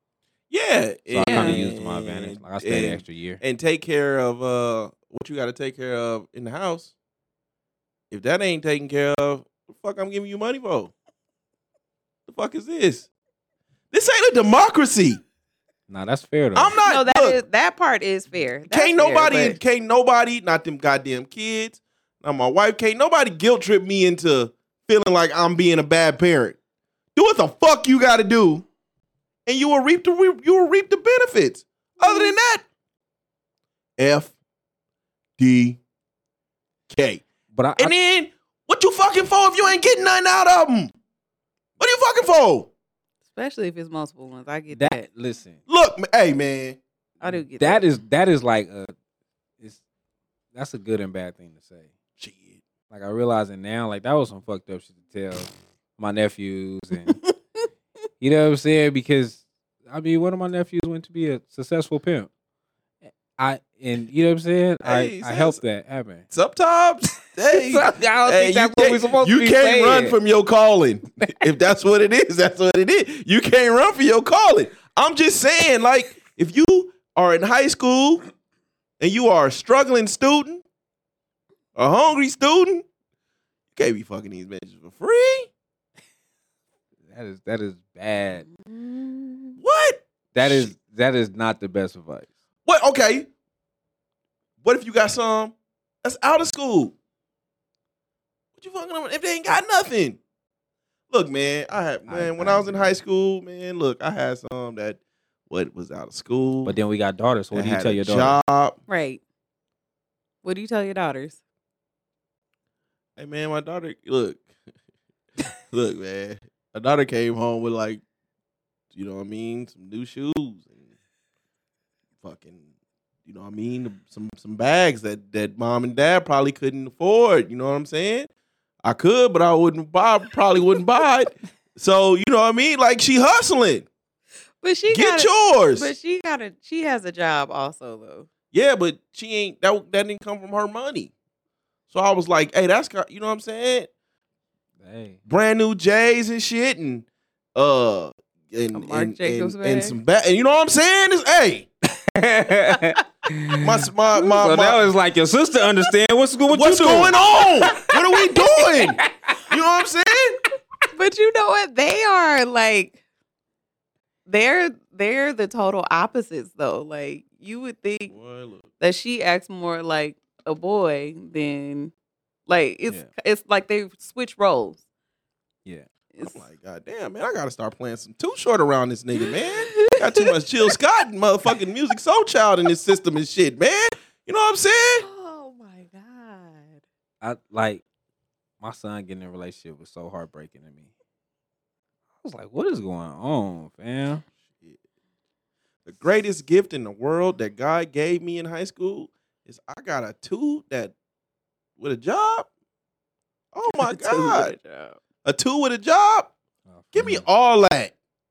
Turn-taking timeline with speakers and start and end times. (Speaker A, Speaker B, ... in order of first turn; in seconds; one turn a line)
Speaker A: 0.5-6.9
Speaker B: 1.1-3.4
Speaker C: 1.2-1.6
Speaker A: 8.1-10.9
Speaker A: 12.3-13.1
Speaker A: 13.9-15.2
Speaker B: 15.9-16.8
Speaker A: 16.5-17.4
Speaker C: 16.8-19.6
Speaker A: 18.7-26.6
Speaker A: 27.1-28.6
Speaker A: 29.4-32.6
Speaker C: 32.0-32.4
Speaker A: 34.0-34.3
Speaker A: 35.4-35.8
Speaker A: 36.9-37.2
Speaker B: 37.5-37.9
Speaker A: 37.8-40.9
Speaker A: 41.8-42.7
Speaker C: 43.3-45.0
Speaker B: 44.7-45.6
Speaker A: 45.7-46.8
Speaker C: 47.2-47.8
Speaker B: 47.6-48.9
Speaker B: 50.5-51.9
Speaker A: 52.2-52.6
Speaker B: 52.9-57.2
Speaker B: 58.2-62.3
Speaker B: 63.4-66.2
Speaker A: 64.8-65.6
Speaker A: 66.3-78.2
Speaker B: 67.5-70.2
Speaker A: 79.0-80.6
Speaker A: 81.8-82.8
Speaker A: 83.7-85.5
Speaker B: 87.1-88.5
Speaker C: 88.3-89.6
Speaker A: 89.6-90.7
Speaker B: 90.3-92.3
Speaker A: 92.7-93.3
Speaker A: 94.6-96.9
Speaker A: 98.6-100.2
Speaker A: 101.1-106.8
Speaker B: 102.1-103.0
Speaker B: 106.6-108.4
Speaker A: 107.5-108.8
Speaker C: 108.9-109.2
Speaker C: 110.4-111.4
Speaker A: 113.2-114.4
Speaker A: 115.7-118.0
Speaker A: 118.9-120.7
Speaker A: 122.2-122.6
Speaker A: 123.2-128.3
Speaker A: 128.8-133.9
Speaker C: 134.6-138.3
Speaker A: 134.9-135.9
Speaker A: 138.5-141.1
Speaker A: 141.9-143.9
Speaker B: 144.8-145.2
Speaker A: 145.3-151.7
Speaker C: 148.7-150.0
Speaker B: 152.0-157.5
Speaker A: 153.6-154.8
Speaker A: 156.5-160.4
Speaker B: 158.6-159.3
Speaker C: 160.9-163.0
Speaker C: 164.3-168.1
Speaker A: 168.1-168.7
Speaker C: 168.8-171.9
Speaker C: 172.5-174.8
Speaker C: 176.1-176.4
Speaker A: 176.2-185.0
Speaker C: 179.2-180.3
Speaker C: 185.0-186.8
Speaker B: 187.2-187.8
Speaker B: 188.6-190.9
Speaker B: 192.2-194.2
Speaker A: 195.8-200.9
Speaker A: 201.8-202.5
Speaker A: 203.5-204.5
Speaker C: 203.7-205.0
Speaker A: 205.2-206.3
Speaker B: 206.7-207.2
Speaker A: 206.9-207.9